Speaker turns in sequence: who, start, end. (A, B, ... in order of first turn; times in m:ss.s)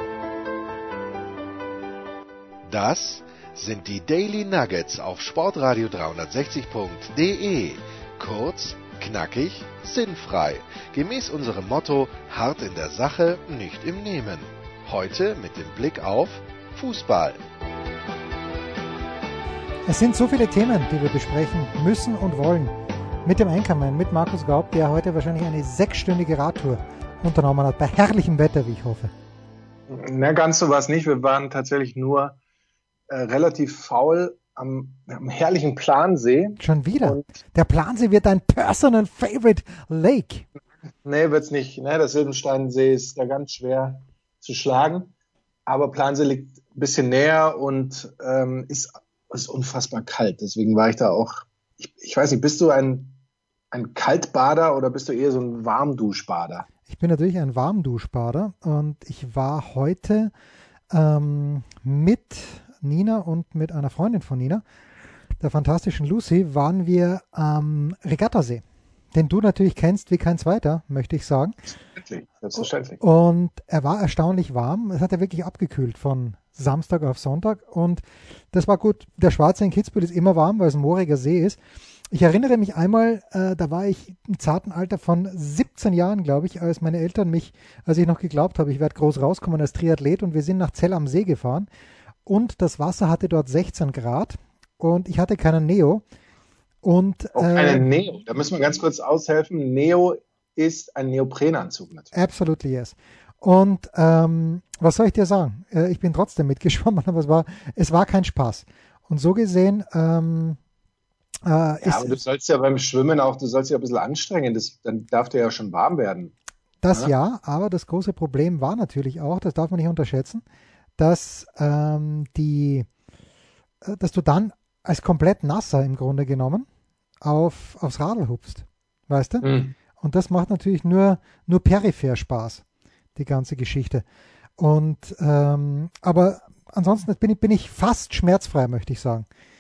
0:02.7-0:17.4 A
0:19.9-0:22.7 B
0:23.2-0:29.1 B
0:29.9-0:32.4 C
0:33.1-0:37.2 C
0:36.6-0:40.5 B
0:41.0-0:45.1 C
0:45.7-0:53.2 C
0:53.7-0:56.7 C
0:56.9-1:00.3 B
1:00.9-1:04.6 B
1:05.4-1:08.6 B
1:09.1-1:11.6 B
1:12.0-1:13.0 C
1:13.0-1:21.6 B
1:22.1-1:31.7 B
1:32.3-1:36.0 B
1:36.8-1:37.8 B
1:37.4-1:42.1 C
1:42.1-1:50.6 B
1:51.5-1:52.2 B
1:51.8-1:56.3 C
1:56.8-2:00.4 B
2:01.0-2:02.9 B
2:03.8-2:06.7 B
2:07.2-2:12.6 B
2:09.4-2:09.7 C
2:13.2-2:14.0 B
2:14.6-2:19.3 B